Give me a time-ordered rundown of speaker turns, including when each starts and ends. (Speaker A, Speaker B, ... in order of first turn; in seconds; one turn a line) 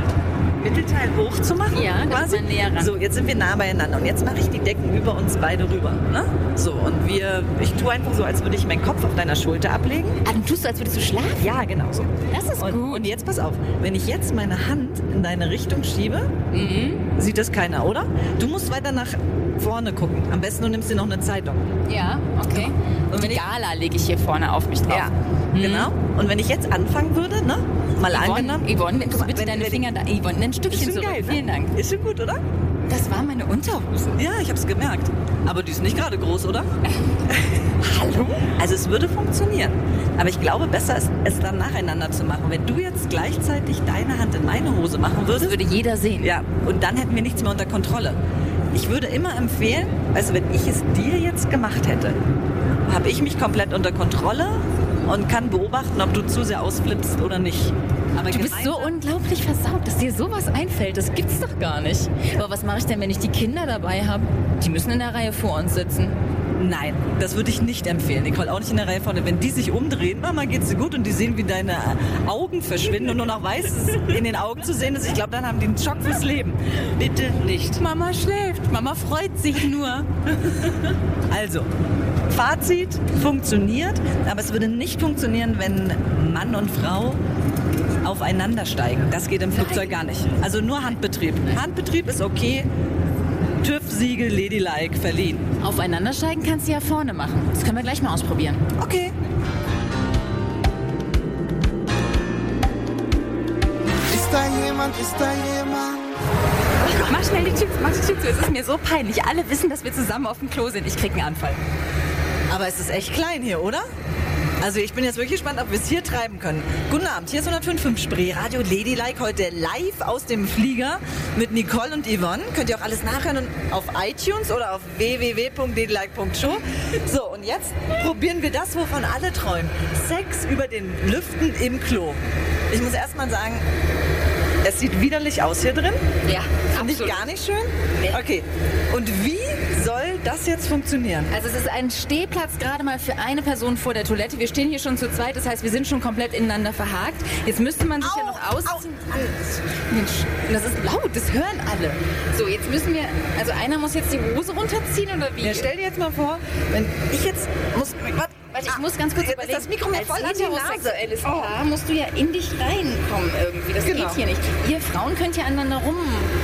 Speaker A: 0.6-10.2
Speaker B: 1.7-2.9
Speaker B: 10.2-11.5
Speaker A: 11.4-16.3
Speaker B: 12.3-13.1
Speaker B: 16.5-17.1
Speaker A: 17.1-21.7
Speaker B: 21.9-25.9
Speaker A: 23.1-23.4
Speaker A: 24.9-29.8
Speaker B: 28.1-31.7
Speaker A: 30.7-32.4
Speaker B: 32.9-34.2
Speaker A: 34.1-36.7
Speaker B: 37.8-38.5
Speaker A: 38.5-45.6
Speaker B: 45.4-46.3
Speaker A: 46.2-48.2
Speaker A: 48.7-52.2
Speaker A: 52.9-58.9
Speaker B: 58.3-66.2
Speaker A: 66.6-77.8
Speaker B: 77.8-80.1
Speaker A: 81.3-81.7
Speaker A: 82.3-87.2
Speaker A: 88.0-92.7
Speaker B: 89.5-90.0
Speaker A: 93.6-95.5
Speaker B: 95.6-98.6
Speaker A: 98.8-99.1
Speaker C: 104.1-106.1
Speaker B: 106.8-111.6
Speaker A: 112.5-113.9
Speaker A: 114.6-133.6
Speaker A: 134.6-136.0
Speaker B: 136.2-137.2
Speaker A: 136.7-141.3
Speaker B: 141.3-155.7
Speaker A: 148.0-148.9
Speaker A: 155.4-161.5
Speaker B: 158.4-166.3
Speaker A: 163.8-164.2